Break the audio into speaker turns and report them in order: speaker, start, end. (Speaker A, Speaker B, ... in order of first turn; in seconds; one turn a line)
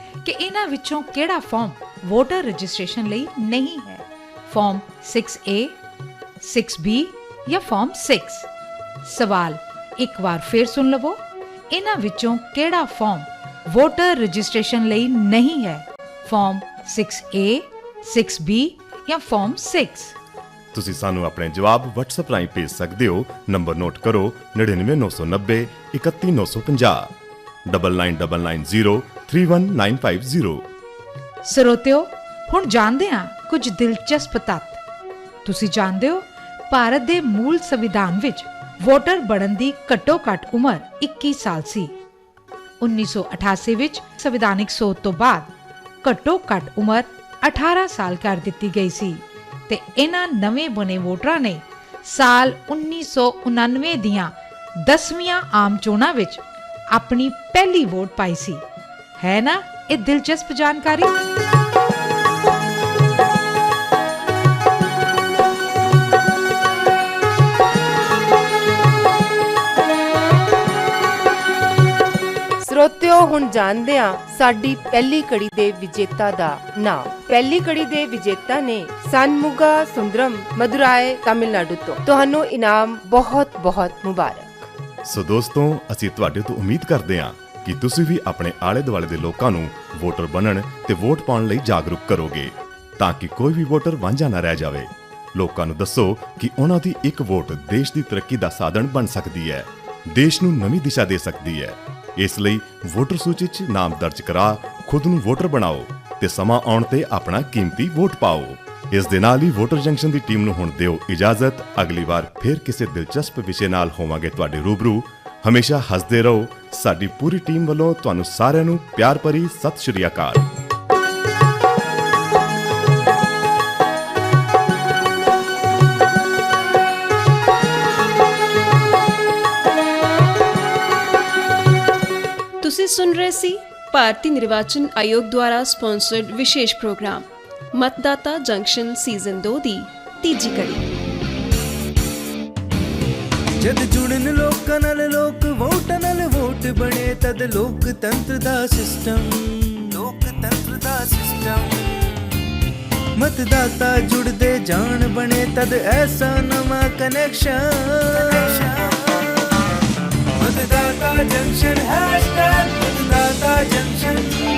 Speaker A: 0.3-4.0
Speaker A: 4.5-5.7
Speaker A: 6.4-8.4
Speaker A: 9.1-9.5
Speaker A: 10.1-11.1
Speaker A: 11.8-13.2
Speaker A: 13.8-15.7
Speaker A: 16.3-20.0
Speaker B: 20.7-27.0
Speaker B: 27.7-30.6
Speaker A: 31.5-32.0
Speaker A: 32.5-34.7
Speaker A: 35.5-36.1
Speaker A: 36.8-41.8
Speaker A: 42.9-45.4
Speaker A: 46.1-49.1
Speaker A: 49.7-51.5
Speaker A: 52.1-54.2
Speaker A: 54.9-56.4
Speaker A: 57.0-58.5
Speaker A: 59.3-60.9
Speaker C: 72.6-84.7
Speaker B: 85.0-120.5
Speaker D: 132.6-140.8
Speaker E: 143.6-152.4
Speaker E: 153.2-159.4
Speaker E: 160.4-164.3